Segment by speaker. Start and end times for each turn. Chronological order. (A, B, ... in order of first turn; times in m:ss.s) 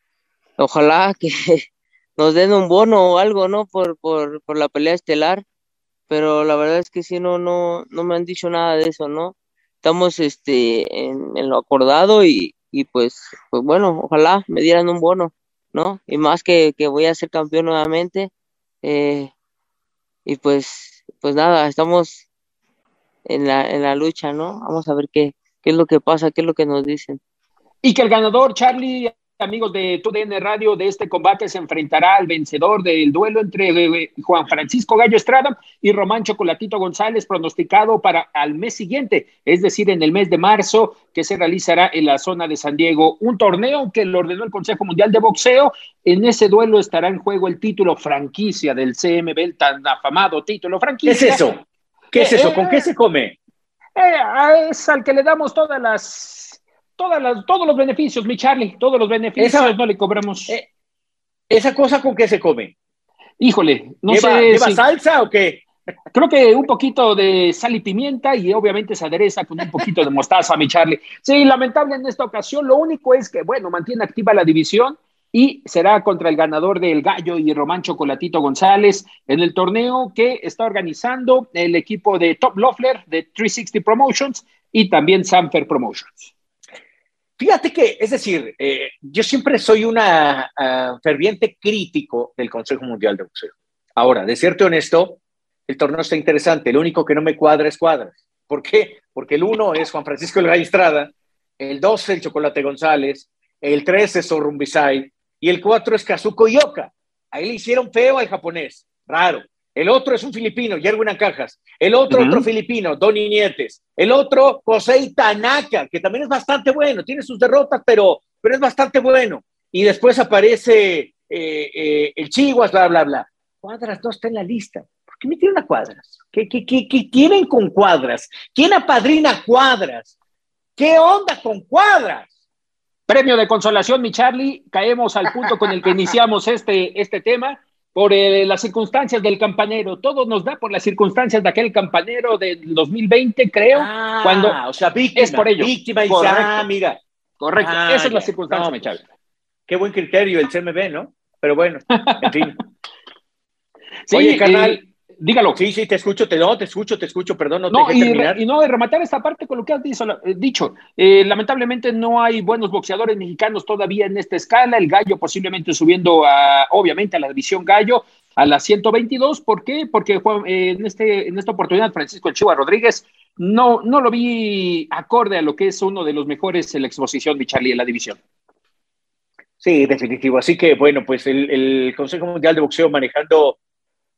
0:00.6-0:01.6 A
0:02.2-0:05.4 A
0:06.1-0:18.3 A
0:18.8-0:19.3 A
0:20.2-0:22.2 A
0:23.2-0:27.2 A
0:27.8-0:51.4 B
0:51.0-0:51.6 C
0:52.1-0:53.4 C
0:52.1-0:52.9 B
0:54.0-1:00.5 B
0:59.4-0:59.8 C
1:01.5-1:02.7 C
1:03.4-1:04.8 B
1:04.1-1:05.6 C
1:06.1-1:26.3 B
1:27.4-2:10.1 C
1:52.1-1:52.5 B
2:10.8-2:12.3 C
2:13.1-2:24.6 B
2:15.3-2:15.8 C
2:23.7-2:27.0 C
2:25.2-2:26.7 B
2:27.4-2:29.0 B
2:27.6-2:29.0 C
2:29.7-2:32.5 C
2:31.9-2:32.5 B
2:34.1-2:35.6 B
2:34.1-2:34.8 C
2:35.5-2:38.4 C
2:37.7-2:58.2 B
2:59.6-3:03.6 C